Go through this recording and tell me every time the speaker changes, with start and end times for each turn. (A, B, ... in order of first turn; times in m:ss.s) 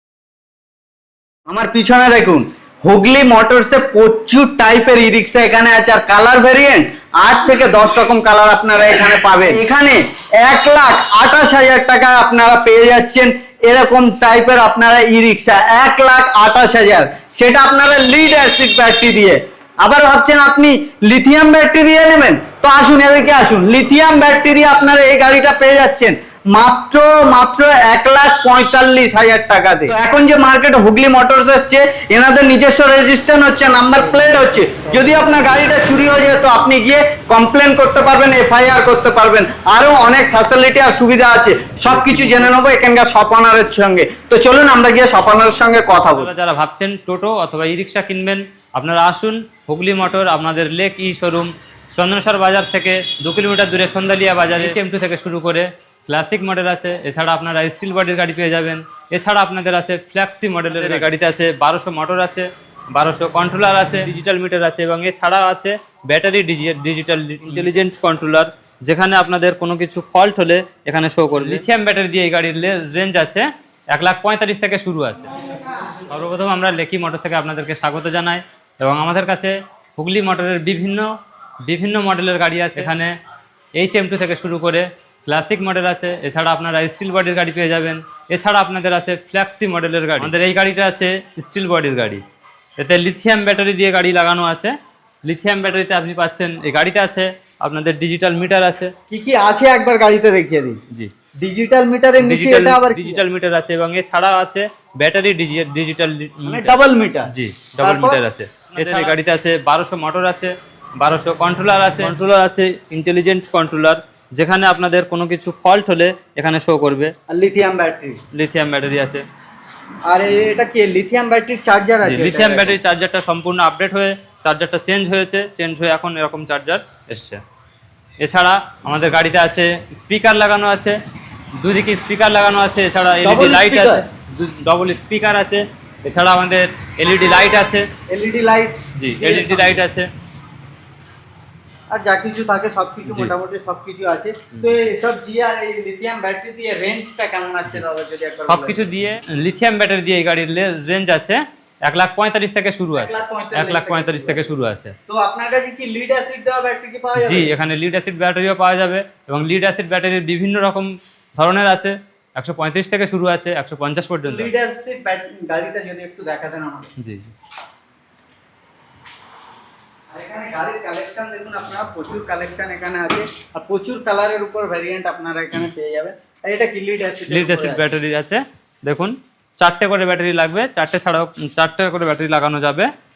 0:01.5-0:46.3 A
0:41.9-0:42.5 B
0:46.1-1:15.3 B
1:16.1-1:21.1 B
1:21.7-1:23.1 B
1:23.8-1:32.2 B
1:32.8-1:34.7 B
1:35.2-1:38.9 B
1:39.1-1:40.8 A
1:41.4-1:43.2 A
1:42.2-1:46.7 B
1:46.5-1:48.2 A
1:47.3-1:57.1 B
1:48.8-1:49.1 A
1:57.3-1:58.2 A
1:58.3-1:59.3 B
2:00.1-2:02.8 A
2:02.0-2:07.4 B
2:08.2-2:11.0 B
2:11.6-2:17.9 B
2:13.2-2:14.0 A
2:18.1-2:19.8 A
2:19.0-2:20.1 B
2:21.9-2:28.9 A
2:23.1-2:23.3 B
2:28.5-2:35.0 B
2:33.0-2:34.5 A
2:35.1-2:37.5 A
2:37.2-2:44.5 B
2:44.2-2:46.9 A
2:47.0-2:47.3 B
2:50.1-2:57.8 A
2:57.3-3:02.9 B